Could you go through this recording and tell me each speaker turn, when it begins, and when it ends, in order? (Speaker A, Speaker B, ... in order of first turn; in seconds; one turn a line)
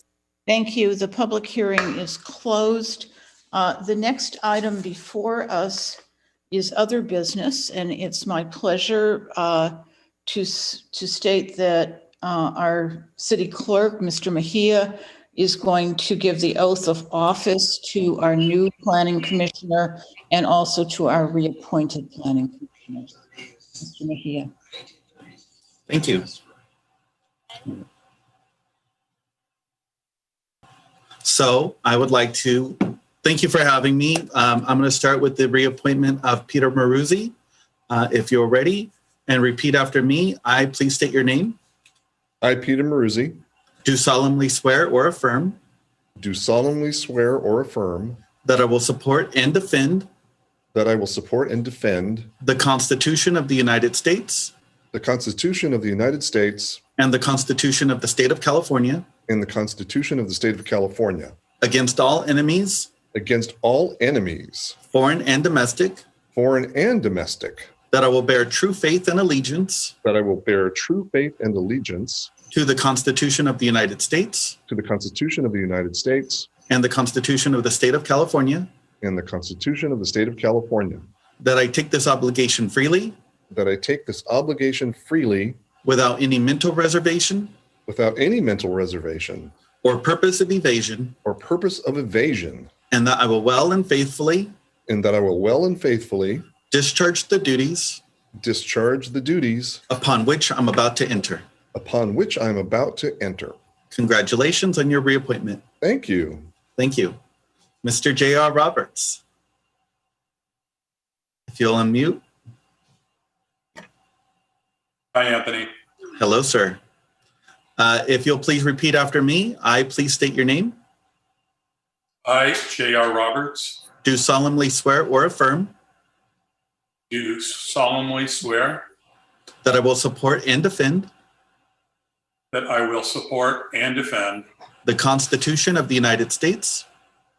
Speaker A: 0.5-6.0
Speaker A: 6.5-9.7
Speaker A: 10.3-23.2
Speaker A: 23.8-24.5
Speaker B: 25.9-26.3
Speaker B: 31.2-37.3
Speaker B: 37.9-41.6
Speaker C: 42.4-43.4
Speaker B: 43.9-45.6
Speaker C: 46.2-48.2
Speaker B: 48.5-50.1
Speaker C: 50.7-52.3
Speaker B: 52.4-54.5
Speaker C: 54.9-56.8
Speaker B: 57.0-59.1
Speaker C: 59.3-61.4
Speaker B: 61.6-62.9
Speaker C: 63.1-64.8
Speaker B: 64.9-66.0
Speaker C: 66.3-67.7
Speaker B: 67.9-69.9
Speaker C: 70.0-72.3
Speaker B: 72.5-74.6
Speaker C: 74.7-76.5
Speaker B: 76.7-78.7
Speaker C: 79.0-81.1
Speaker B: 81.4-83.2
Speaker C: 83.5-85.6
Speaker B: 85.8-87.5
Speaker C: 87.9-89.5
Speaker B: 89.8-91.2
Speaker C: 91.2-92.7
Speaker B: 92.9-94.5
Speaker C: 94.9-96.5
Speaker B: 96.7-98.0
Speaker C: 98.4-99.8
Speaker B: 99.9-101.4
Speaker C: 101.7-103.6
Speaker B: 103.9-105.6
Speaker C: 105.8-106.5
Speaker B: 106.8-107.2
Speaker B: 107.8-109.2
Speaker B: 111.5-112.2
Speaker D: 115.1-115.7
Speaker B: 116.2-116.8
Speaker B: 117.8-120.8
Speaker D: 122.2-123.8
Speaker B: 124.0-125.7
Speaker D: 127.1-128.8
Speaker B: 129.6-131.1
Speaker D: 132.5-134.4
Speaker B: 134.9-136.8